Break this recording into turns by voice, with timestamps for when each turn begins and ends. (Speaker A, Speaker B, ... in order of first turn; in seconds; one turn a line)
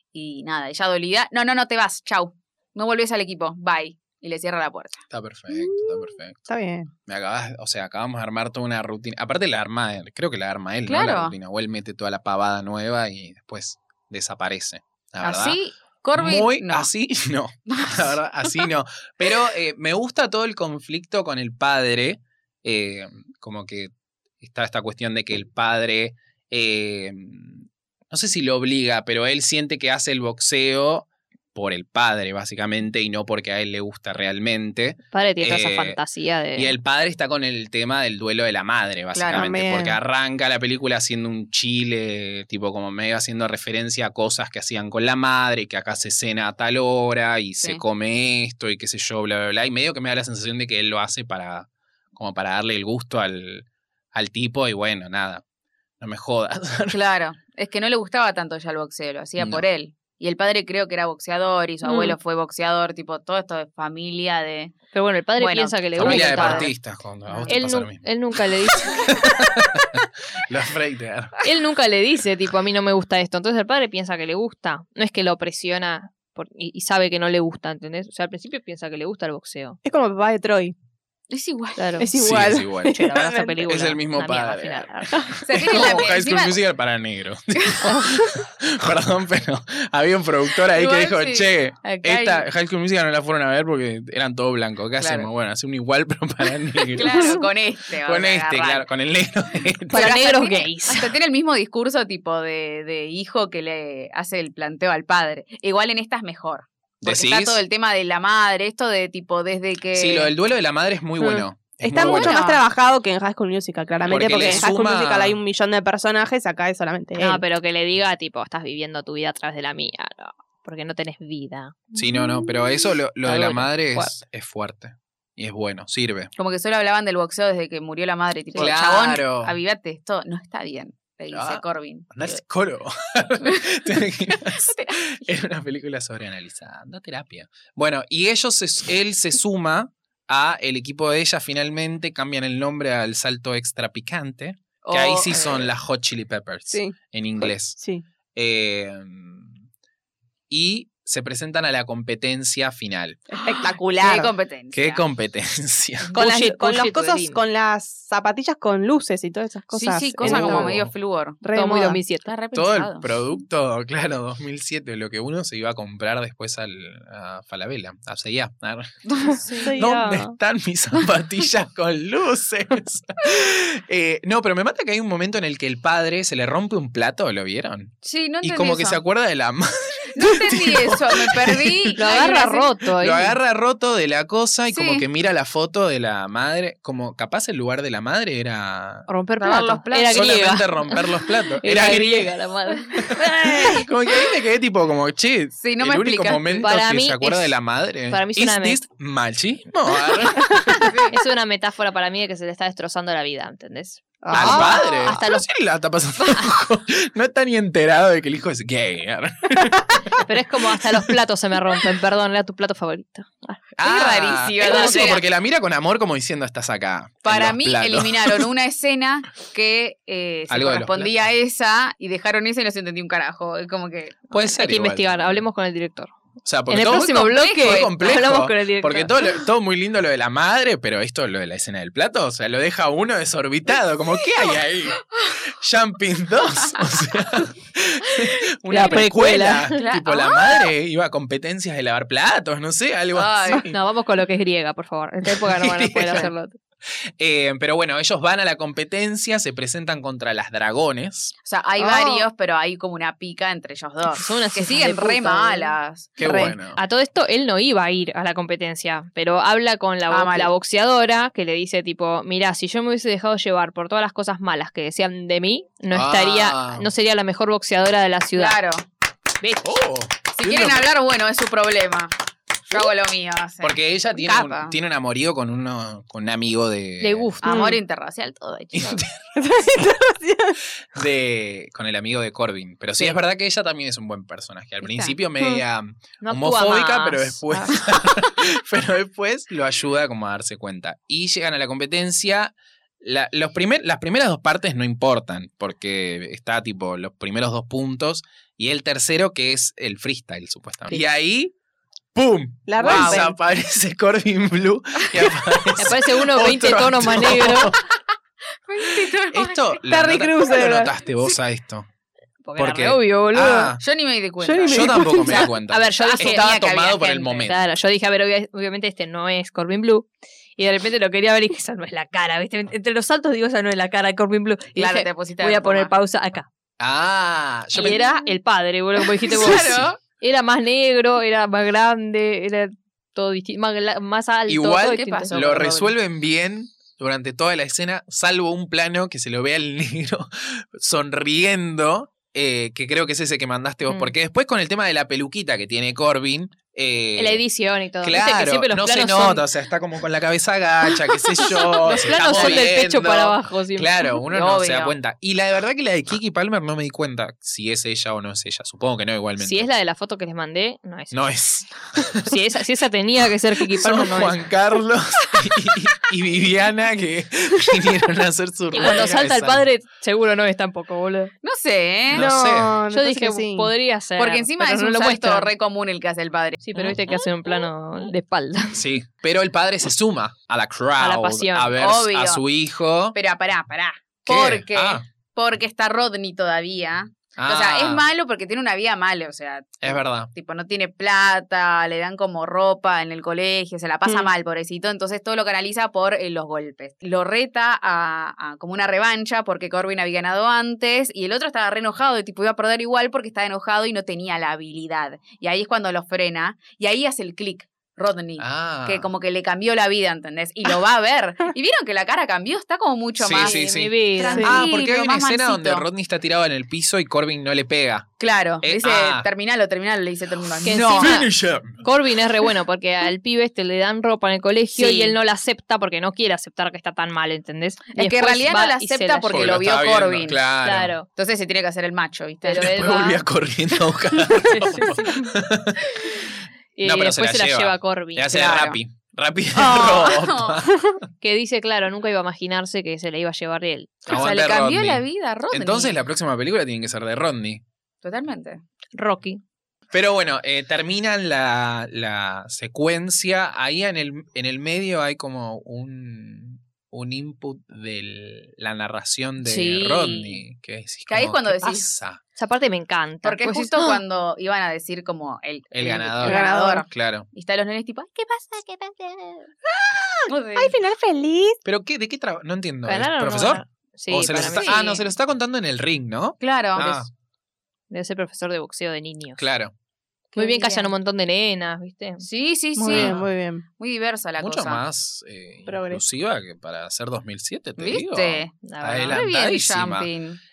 Speaker A: 0.1-5.0
Speaker B: 5.1-6.4
Speaker C: 5.5-6.9
Speaker B: 7.1-15.6
Speaker A: 10.9-11.3
Speaker A: 15.2-16.9
Speaker B: 16.1-36.0
Speaker A: 17.7-18.2
Speaker D: 35.1-36.7
Speaker B: 36.6-55.4
Speaker A: 39.1-39.5
Speaker C: 39.3-40.0
Speaker B: 56.0-57.0
Speaker A: 56.9-64.7
Speaker B: 59.4-59.6
Speaker D: 61.8-62.2
Speaker D: 64.9-66.7
Speaker A: 65.4-66.7
Speaker B: 66.0-68.1
Speaker A: 67.3-67.5
Speaker D: 67.5-69.2
Speaker B: 68.9-71.4
Speaker D: 71.4-79.8
Speaker C: 79.8-80.8
Speaker A: 81.3-82.0
Speaker D: 81.8-82.1
Speaker C: 82.0-83.7
Speaker B: 82.2-83.0
Speaker D: 82.8-85.3
Speaker B: 83.7-97.3
Speaker A: 85.4-86.6
Speaker A: 87.6-87.9
Speaker A: 90.7-92.5
Speaker A: 95.0-95.3
Speaker A: 96.9-98.9
Speaker B: 98.0-100.1
Speaker A: 99.9-110.3
Speaker D: 99.9-101.2
Speaker B: 107.0-107.6
Speaker B: 109.9-112.4
Speaker C: 111.2-117.4
Speaker A: 112.0-112.6
Speaker B: 114.1-115.4
Speaker A: 114.3-114.6
Speaker D: 117.2-121.9
Speaker B: 121.9-126.3
Speaker D: 123.2-124.1
Speaker A: 126.4-132.4
Speaker B: 128.6-129.6
Speaker B: 131.3-147.8
Speaker A: 134.4-135.2
Speaker A: 144.8-145.7
Speaker C: 146.7-148.0
Speaker B: 148.3-149.6
Speaker B: 150.5-153.2
Speaker C: 153.3-154.3
Speaker A: 153.4-155.0
Speaker B: 154.7-156.2
Speaker C: 156.2-160.8
Speaker D: 156.2-157.4
Speaker A: 159.7-161.4
Speaker B: 160.2-160.9
Speaker D: 160.2-160.6
Speaker C: 161.4-162.0
Speaker D: 161.5-162.3
Speaker A: 162.2-163.1
Speaker B: 162.5-182.0
Speaker A: 169.1-169.7
Speaker C: 169.6-170.3
Speaker A: 178.0-179.0
Speaker A: 180.2-182.7
Speaker D: 182.0-183.4
Speaker B: 183.0-189.1
Speaker A: 184.7-185.1
Speaker D: 189.1-193.9
Speaker A: 189.4-190.4
Speaker B: 190.1-192.4
Speaker B: 192.9-200.9
Speaker A: 195.6-196.7
Speaker D: 196.6-197.6
Speaker D: 198.1-198.8
Speaker D: 200.3-205.5
Speaker A: 200.7-201.2
Speaker C: 204.2-205.2
Speaker B: 204.3-211.1
Speaker D: 210.2-213.6
Speaker B: 213.8-218.5
Speaker A: 213.8-215.2
Speaker D: 214.6-215.2
Speaker A: 217.2-224.3
Speaker B: 220.5-221.2
Speaker B: 224.3-225.4
Speaker D: 224.3-226.1
Speaker B: 226.4-243.8
Speaker D: 226.7-229.4
Speaker A: 227.1-228.2
Speaker D: 238.7-239.8
Speaker A: 238.8-239.1
Speaker A: 239.7-240.7
Speaker A: 243.1-243.7
Speaker D: 243.7-246.6
Speaker B: 245.3-246.3
Speaker B: 247.0-251.3
Speaker A: 251.4-256.4
Speaker C: 251.8-252.2
Speaker D: 254.1-268.6
Speaker B: 256.2-256.8
Speaker A: 260.1-260.5
Speaker B: 265.9-266.9
Speaker A: 268.3-268.9
Speaker B: 269.6-270.9
Speaker A: 270.4-272.1
Speaker A: 272.7-274.8
Speaker B: 273.6-277.3
Speaker D: 277.0-277.7
Speaker A: 277.4-279.1
Speaker C: 277.4-277.8
Speaker B: 278.7-279.3
Speaker C: 279.4-280.6
Speaker B: 280.9-301.5
Speaker D: 286.2-287.7
Speaker B: 302.1-307.8
Speaker C: 302.7-303.4
Speaker A: 302.8-303.3
Speaker D: 305.8-307.8
Speaker A: 308.6-309.8
Speaker B: 309.0-311.9
Speaker C: 309.9-310.9
Speaker D: 312.4-313.7
Speaker B: 312.6-313.8
Speaker A: 313.8-317.5
Speaker C: 314.4-315.5
Speaker B: 314.7-317.6
Speaker D: 315.3-316.5
Speaker D: 317.4-326.5
Speaker A: 324.8-325.9
Speaker B: 326.8-328.0
Speaker A: 327.8-328.1
Speaker D: 327.8-335.7
Speaker A: 329.2-330.0
Speaker B: 329.4-329.9
Speaker B: 334.5-347.4
Speaker A: 334.9-335.9
Speaker D: 343.9-344.1
Speaker D: 347.2-349.5
Speaker B: 348.0-359.7
Speaker D: 351.1-354.2
Speaker A: 352.2-352.7
Speaker A: 354.3-355.0
Speaker D: 359.4-361.3
Speaker B: 361.1-362.3
Speaker D: 362.2-364.4
Speaker B: 363.7-369.7
Speaker D: 368.7-371.3
Speaker A: 371.4-372.3
Speaker B: 372.1-372.8
Speaker C: 372.1-373.7
Speaker D: 372.9-375.5
Speaker A: 374.2-376.6
Speaker D: 376.6-378.8
Speaker B: 378.7-383.2
Speaker D: 381.0-381.8
Speaker A: 381.8-382.4
Speaker A: 383.1-413.6
Speaker B: 384.3-385.0
Speaker B: 387.4-388.1
Speaker B: 389.8-390.3
Speaker C: 394.1-394.3
Speaker B: 408.4-409.1
Speaker B: 413.2-419.3
Speaker D: 413.4-414.6
Speaker A: 414.2-415.9
Speaker C: 414.2-414.6
Speaker A: 418.2-421.2
Speaker B: 420.6-421.9
Speaker D: 420.6-429.6
Speaker A: 424.8-425.2
Speaker A: 427.9-430.4
Speaker B: 429.3-431.0
Speaker D: 430.6-431.1
Speaker A: 431.1-433.2
Speaker D: 432.4-433.2
Speaker B: 432.6-435.8
Speaker D: 434.4-435.4
Speaker D: 436.8-438.4
Speaker B: 436.8-441.0
Speaker A: 438.3-438.8
Speaker A: 439.5-440.7
Speaker D: 441.2-444.0
Speaker B: 444.1-447.6
Speaker A: 444.1-446.0
Speaker A: 448.0-448.6
Speaker D: 448.9-449.4
Speaker B: 449.9-462.2
Speaker A: 459.6-460.4
Speaker A: 461.1-461.9
Speaker D: 462.4-464.0
Speaker A: 463.2-468.4
Speaker B: 465.7-467.3
Speaker C: 466.2-466.9
Speaker D: 468.3-469.5
Speaker A: 470.3-470.7
Speaker C: 470.6-471.6
Speaker B: 471.6-477.1
Speaker D: 472.9-475.0
Speaker A: 474.3-475.0
Speaker A: 476.4-477.1
Speaker D: 477.9-479.4
Speaker B: 479.4-479.7
Speaker A: 480.4-480.9
Speaker D: 480.4-482.2
Speaker A: 482.2-483.2
Speaker C: 482.8-483.6
Speaker B: 482.9-483.3
Speaker A: 483.7-484.8
Speaker B: 484.4-490.1
Speaker C: 485.7-486.0
Speaker A: 487.8-488.5
Speaker D: 488.6-489.2
Speaker A: 489.1-490.4